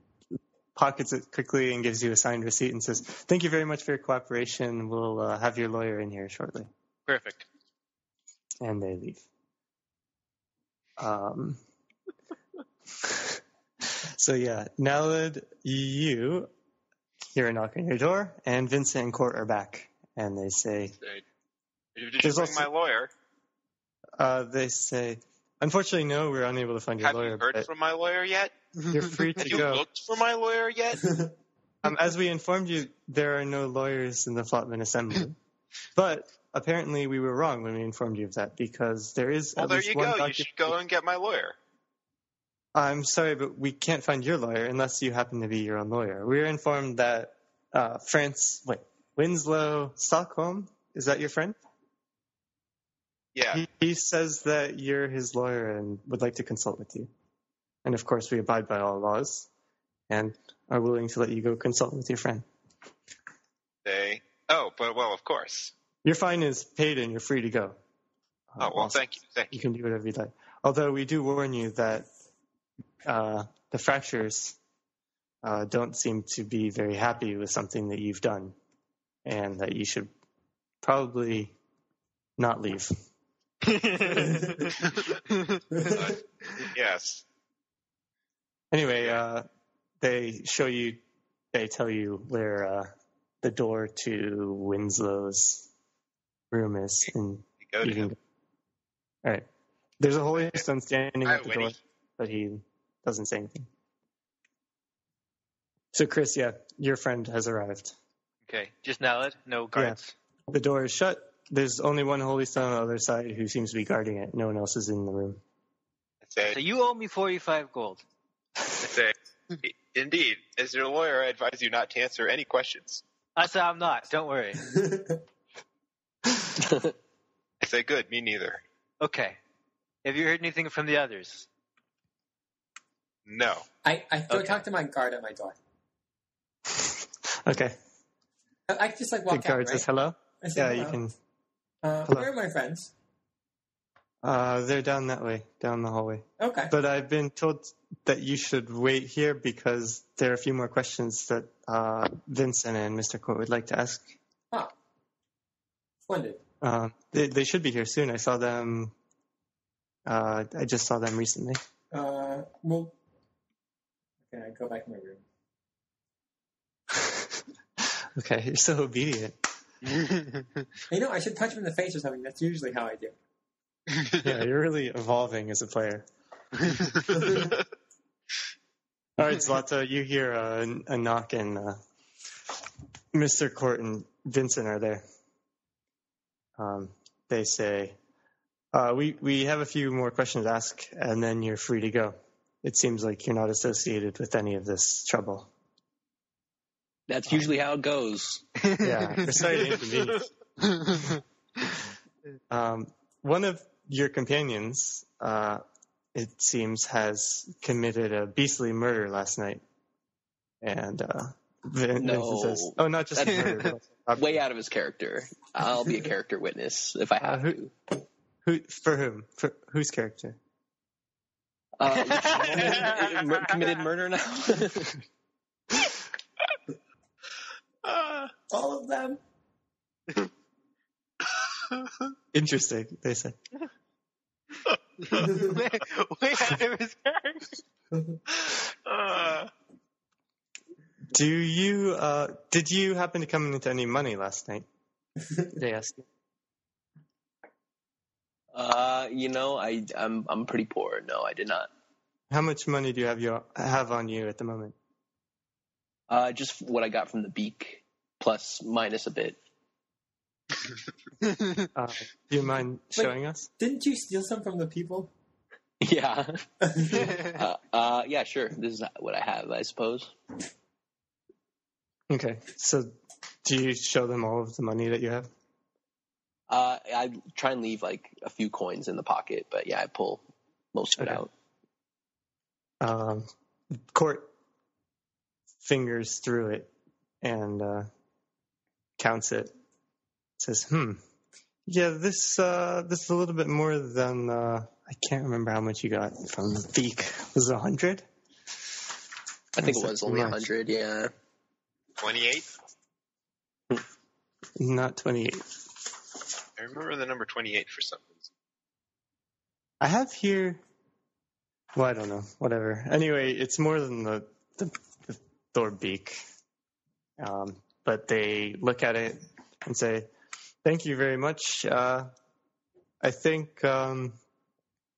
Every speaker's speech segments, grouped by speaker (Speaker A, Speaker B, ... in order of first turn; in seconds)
Speaker A: 0.8-6.7, 8.6-9.2, 11.0-11.6, 13.0-13.4, 14.2-16.5, 17.3-21.0, 22.2-22.7, 24.2-27.7, 28.9-29.8, 31.8-35.4, 36.0-40.8, 42.8-51.6, 53.5-57.1, 57.9-59.5, 60.1-62.5, 66.0-67.8, 68.5-72.1, 73.0-74.6, 75.4-78.5, 79.2-80.1, 80.8-81.5, 82.4-82.9, 88.7-89.5, 90.0-91.0, 91.5-92.9, 93.4-95.7, 96.5-98.2, 100.0-103.7, 105.9-108.0, 110.5-115.4, 136.7-137.8, 139.3-141.1, 144.2-154.1, 156.6-158.9, 160.1-161.6, 166.9-169.4, 174.2-176.1, 179.2-181.8, 183.1-185.0, 186.6-188.0, 188.7-195.5, 198.8-200.2, 202.5-205.6, 206.1-209.6, 210.6-214.4, 217.2-217.6, 218.4-220.4, 232.3-233.4, 241.1-244.7, 245.6-246.1, 252.3-254.8, 261.8-263.5, 272.1-272.9, 273.4-275.3, 281.0-281.2, 282.8-284.3, 285.6-286.7, 287.2-287.9, 289.0-289.5, 290.4-291.0, 291.7-298.1, 299.6-300.4, 304.6-305.6, 309.8-310.6, 311.7-316.2, 317.2-320.1, 320.6-322.1, 323.0-324.2
Speaker B: 7.1-7.5, 83.6-85.9, 108.5-110.1, 116.5-118.0, 123.4-124.6, 129.0-129.4, 130.0-131.5, 134.3-134.6, 170.0-170.3, 198.7-199.4, 200.7-201.1, 222.1-222.9, 235.1-237.6
Speaker C: 22.0-23.1, 27.0-28.6, 29.3-31.1, 39.6-41.6, 53.4-53.6, 63.9-65.7, 68.6-69.6, 85.8-87.2, 97.6-98.1, 100.4-100.6, 101.2-101.8, 116.2-116.6, 118.8-123.0, 127.6-128.6, 133.3-133.7, 238.9-239.5, 302.0-302.5, 306.6-308.3
Speaker D: 31.0-31.3, 124.6-125.2, 133.8-135.6, 138.7-139.9, 140.4-141.0, 141.8-142.9, 146.4-146.7, 156.1-156.4, 161.9-162.9, 164.3-165.2, 170.9-173.2, 228.5-229.2, 262.9-265.1, 266.6-267.2
Speaker E: 126.6-126.9, 197.1-198.4, 212.0-217.7, 221.8-225.0, 248.5-251.7, 256.1-259.4, 265.8-270.1, 276.5-281.3, 299.6-301.1